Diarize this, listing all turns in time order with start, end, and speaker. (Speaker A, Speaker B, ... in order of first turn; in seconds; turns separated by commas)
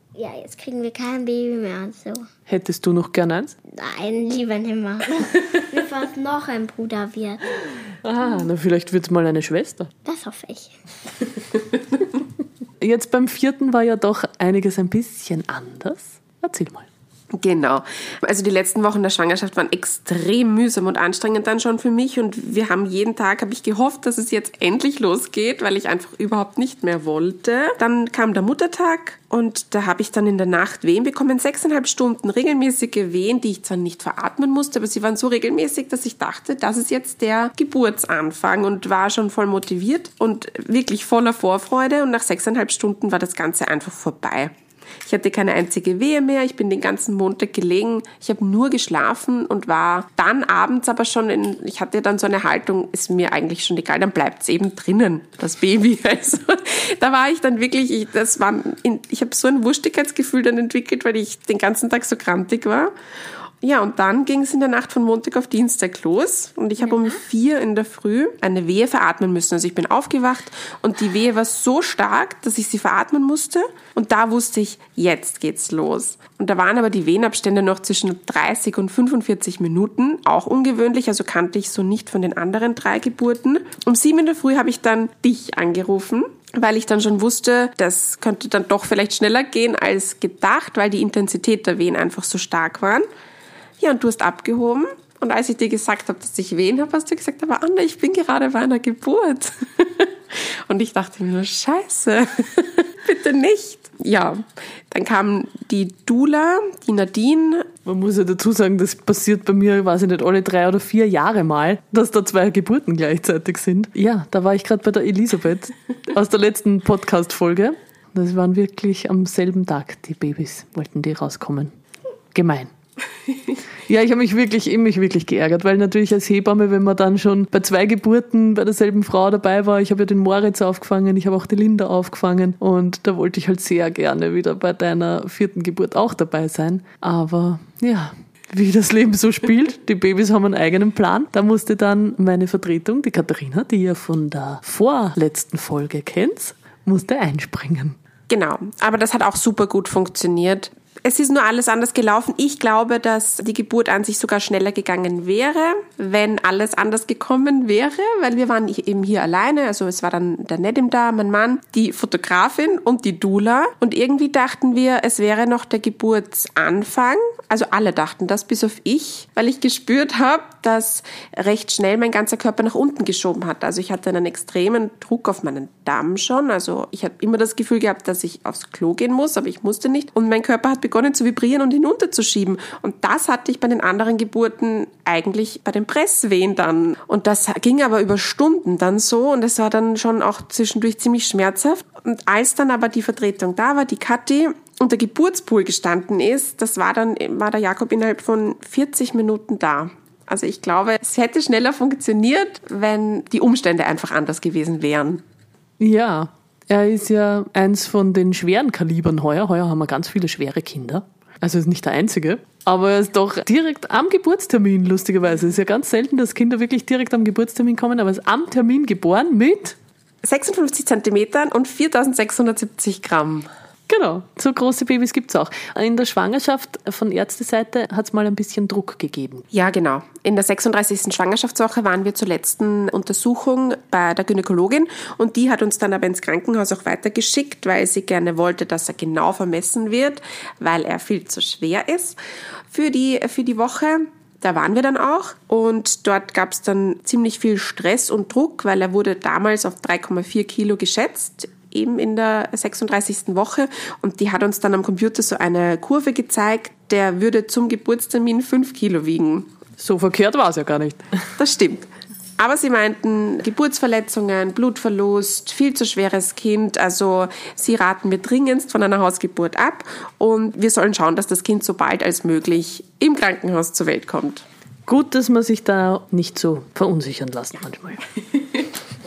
Speaker A: 0.1-2.2, Speaker B: 2.5-3.5, Speaker A: 3.7-7.6, Speaker B: 8.0-9.9, Speaker A: 10.0-10.8, Speaker B: 12.8-16.9, Speaker C: 17.3-44.5, Speaker C: 45.0-62.9, Speaker C: 63.6-93.0, Speaker C: 93.8-107.7, Speaker B: 107.8-121.7, Speaker B: 122.3-122.7, Speaker B: 123.8-148.0, Speaker C: 148.3-205.2, Speaker B: 205.8-219.8, Speaker C: 220.2-223.5, Speaker B: 223.9-229.4, Speaker C: 229.5-242.2, Speaker C: 242.7-259.5, Speaker B: 259.8-261.0, Speaker C: 261.4-261.9, Speaker C: 262.4-274.4, Speaker B: 274.9-278.1